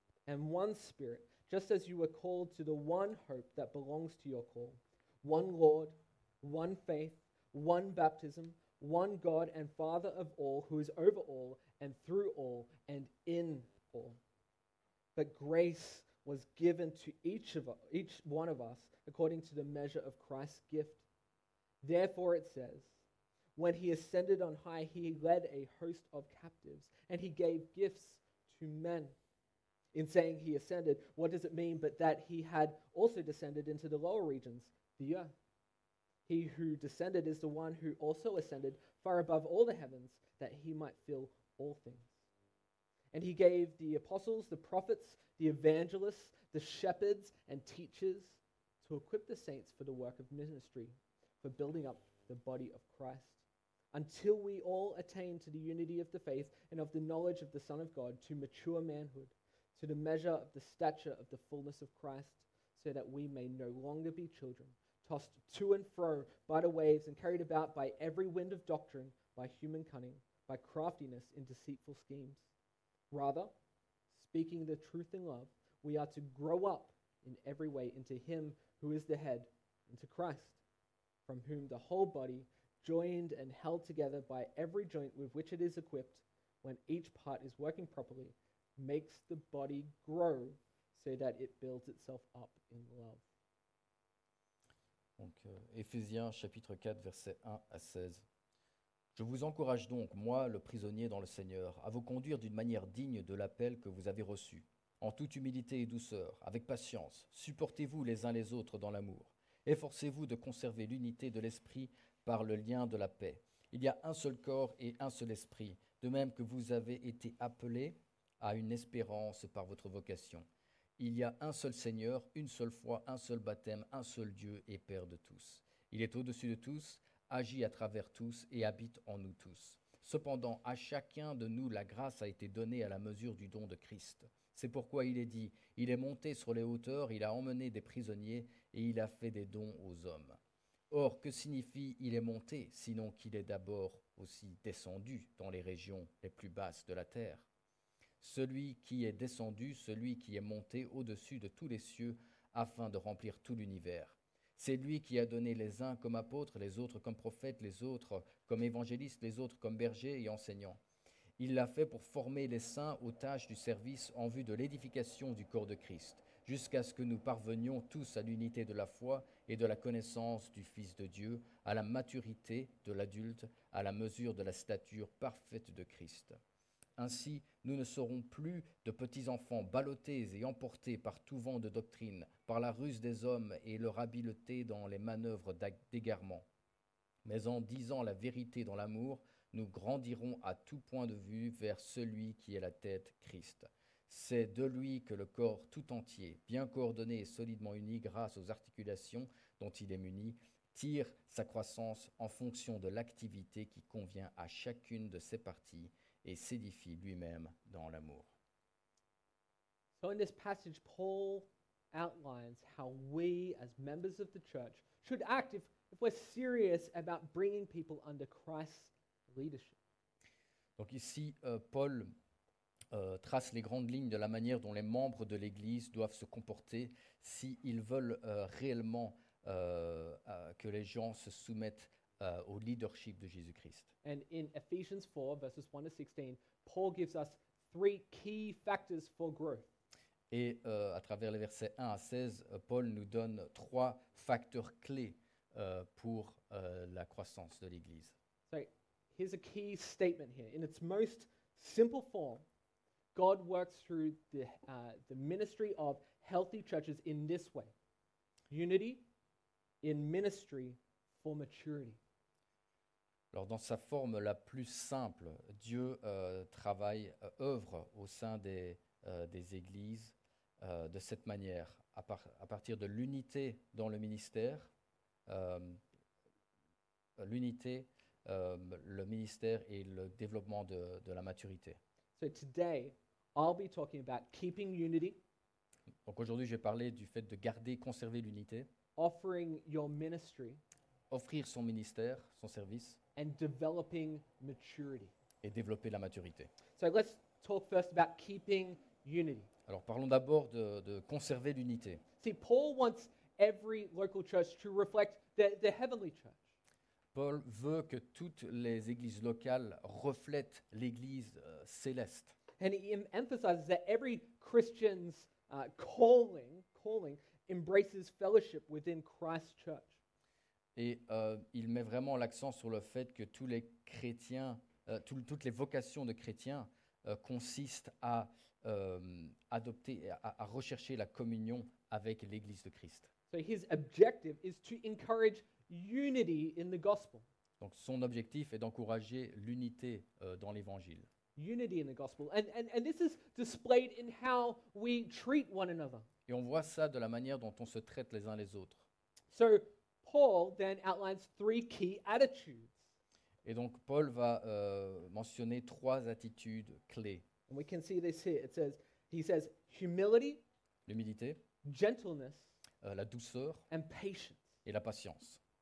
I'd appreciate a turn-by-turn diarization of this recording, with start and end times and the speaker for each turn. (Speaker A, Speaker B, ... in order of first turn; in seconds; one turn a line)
Speaker A: 0.3-14.2
Speaker A: 15.2-21.0
Speaker A: 21.8-22.9
Speaker A: 23.6-29.1
Speaker A: 29.9-35.3
Speaker A: 36.3-42.1
Speaker A: 43.1-53.4
Speaker A: 53.9-72.4
Speaker A: 73.1-73.5
Speaker A: 74.2-80.6
Speaker A: 81.3-93.2
Speaker B: 95.2-98.3
Speaker B: 99.2-120.5
Speaker B: 121.0-140.4
Speaker B: 140.9-147.5
Speaker B: 148.2-160.8
Speaker B: 161.4-176.4
Speaker B: 177.0-186.5
Speaker B: 187.2-208.3
Speaker A: 210.0-219.8
Speaker B: 220.8-222.1
Speaker B: 222.9-233.9
Speaker A: 234.0-239.7
Speaker B: 240.3-248.1
Speaker A: 248.5-252.4
Speaker A: 253.2-257.7
Speaker A: 258.5-259.0
Speaker A: 259.8-262.0
Speaker B: 263.3-274.7
Speaker B: 275.3-275.8
Speaker B: 277.2-281.8
Speaker A: 282.2-285.2
Speaker B: 286.1-288.7
Speaker A: 289.0-290.6
Speaker B: 291.1-293.0
Speaker A: 293.2-295.1
Speaker B: 295.4-296.5
Speaker A: 296.8-299.5
Speaker B: 299.7-302.0
Speaker A: 302.2-306.4
Speaker B: 307.1-312.4
Speaker A: 312.6-319.9
Speaker B: 320.8-333.1
Speaker A: 333.3-337.2
Speaker B: 337.6-341.1
Speaker A: 341.4-346.1
Speaker B: 346.3-348.9
Speaker A: 349.3-352.8
Speaker B: 353.4-357.2
Speaker A: 357.5-360.4
Speaker B: 360.9-361.4
Speaker A: 361.6-362.5
Speaker B: 362.8-363.6
Speaker A: 363.7-364.5
Speaker B: 364.6-365.4